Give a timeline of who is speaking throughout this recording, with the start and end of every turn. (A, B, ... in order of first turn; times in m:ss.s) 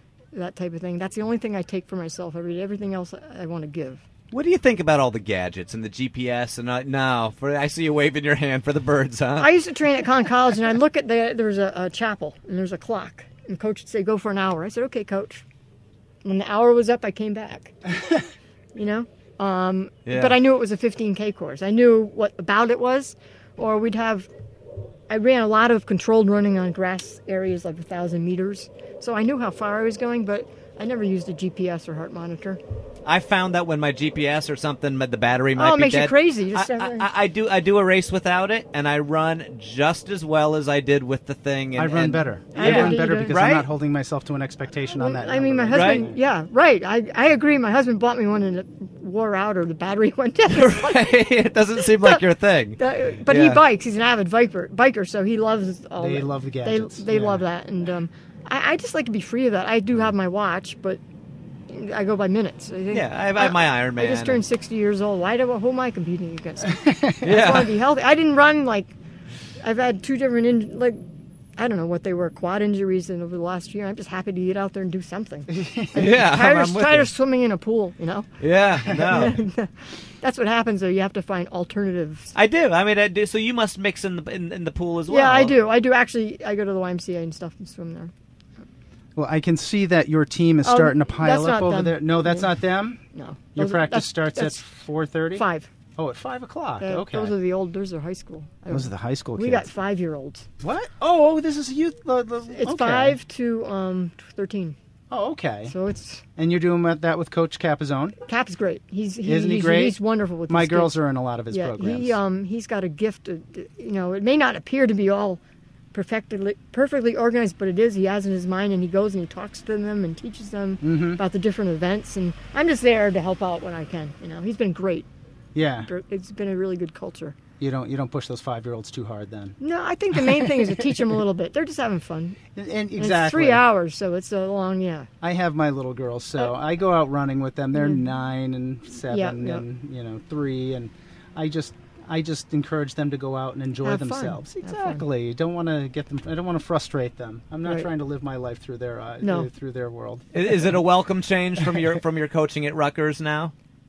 0:00.3-0:04.0 A
0:04.3-0:09.5 B
0:09.4-0:15.4 A
0:16.2-0:17.8 A
0:18.7-0:24.3 A
0:20.0-0:20.4 B
0:25.1-0:32.6 A
0:33.0-0:43.7 B
0:35.6-0:37.1 A
0:41.8-0:46.2 C
0:42.6-0:43.4 A
0:45.0-0:51.2 A
0:45.7-0:46.0 B
0:50.5-0:53.6 B
0:51.8-0:52.2 A
0:52.8-1:01.0 A
0:56.0-0:57.4 C
1:01.7-1:08.9 A
1:02.9-1:04.4 B
1:06.7-1:07.3 C
1:07.2-1:07.7 B
1:09.6-1:11.0 A
1:11.6-1:18.3 A
1:15.5-1:15.9 C
1:16.0-1:17.1 B
1:18.4-1:19.4 B
1:18.9-1:22.3 A
1:22.3-1:25.6 B
1:25.1-1:28.1 A
1:29.2-1:33.0 C
1:30.6-1:32.5 A
1:33.1-1:34.7 A
1:33.6-1:35.4 C
1:35.3-1:35.7 A
1:36.0-1:37.3 C
1:36.8-1:40.5 A
1:38.7-1:39.7 C
1:40.6-1:43.2 C
1:42.6-1:44.8 A
1:45.1-1:45.7 C
1:45.7-1:46.3 A
1:46.4-1:48.2 C
1:48.2-1:50.9 A
1:49.2-1:50.0 C
1:50.5-1:52.2 C
1:51.5-1:55.4 A
1:55.9-2:05.1 A
2:00.8-2:01.2 C
2:05.6-2:05.9 C
2:05.8-2:07.4 A
2:07.6-2:09.6 C
2:09.6-2:12.4 A
2:10.1-2:11.1 C
2:12.6-2:13.6 C
2:13.0-2:15.1 A
2:15.2-2:30.2 C
2:17.7-2:18.0 A
2:19.1-2:19.6 A
2:23.8-2:25.0 A
2:29.2-2:29.5 A
2:30.3-2:33.5 B